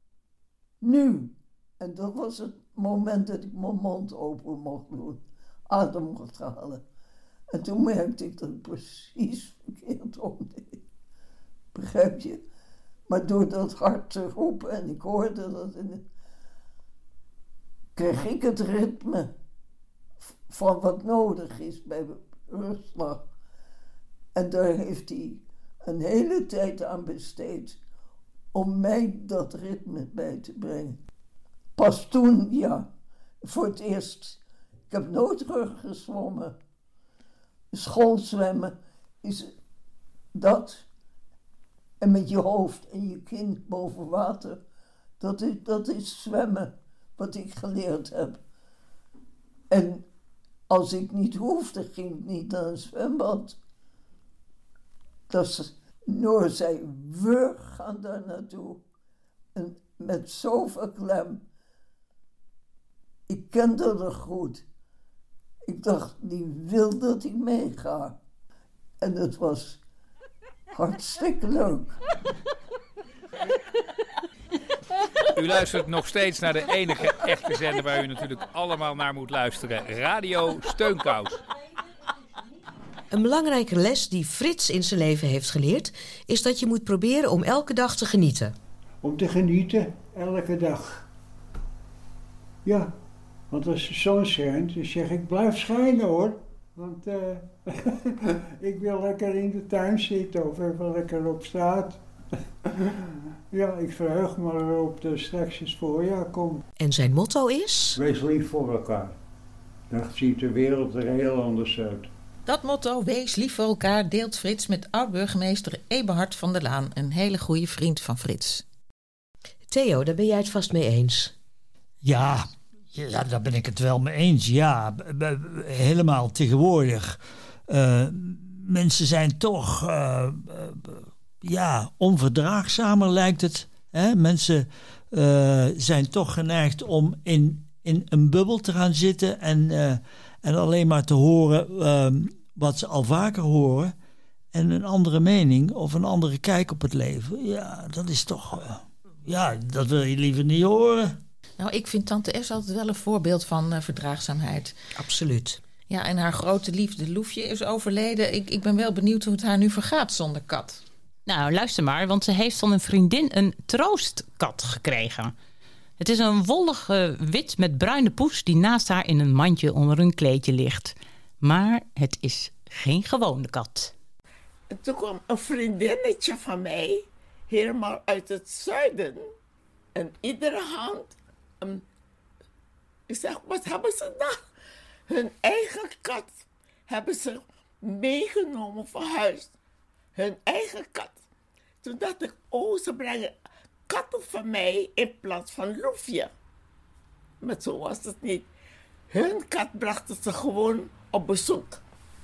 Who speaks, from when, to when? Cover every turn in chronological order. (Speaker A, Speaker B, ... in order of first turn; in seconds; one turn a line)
Speaker A: 0.8-6.8
Speaker A: 7.5-10.8
Speaker A: 11.7-12.4
Speaker A: 13.1-16.0
Speaker A: 17.9-19.3
Speaker A: 20.5-23.3
Speaker A: 24.3-27.8
Speaker A: 28.5-31.0
Speaker A: 31.8-32.9
Speaker A: 33.4-36.5
Speaker A: 37.7-39.5
Speaker A: 40.3-40.9
Speaker A: 42.0-44.6
Speaker A: 45.2-48.4
Speaker A: 49.7-50.0
Speaker A: 50.7-53.6
Speaker A: 55.3-58.8
Speaker A: 59.5-61.4
Speaker A: 63.3-64.6
Speaker A: 65.7-68.2
Speaker A: 69.0-69.8
Speaker A: 70.7-72.0
Speaker B: 75.3-81.4
Speaker C: 83.1-88.5
Speaker D: 89.0-91.0
Speaker D: 92.6-93.0
Speaker D: 93.5-102.0
Speaker D: 102.6-106.6
Speaker C: 106.8-108.0
Speaker D: 108.0-109.2
Speaker D: 109.9-112.1
Speaker E: 112.5-118.6
Speaker C: 119.7-121.3
Speaker F: 122.0-143.9
Speaker F: 144.5-151.2
Speaker E: 151.6-154.7
Speaker C: 154.9-155.6
Speaker E: 155.9-160.8
Speaker G: 161.3-165.3
Speaker G: 166.0-173.9
Speaker H: 174.7-179.3
Speaker H: 179.9-181.8
Speaker H: 183.1-184.4
Speaker H: 185.1-186.3
Speaker H: 186.9-189.5
Speaker H: 190.1-191.2
Speaker H: 191.8-193.3
Speaker H: 193.9-196.3
Speaker H: 197.4-198.5
Speaker H: 199.1-201.8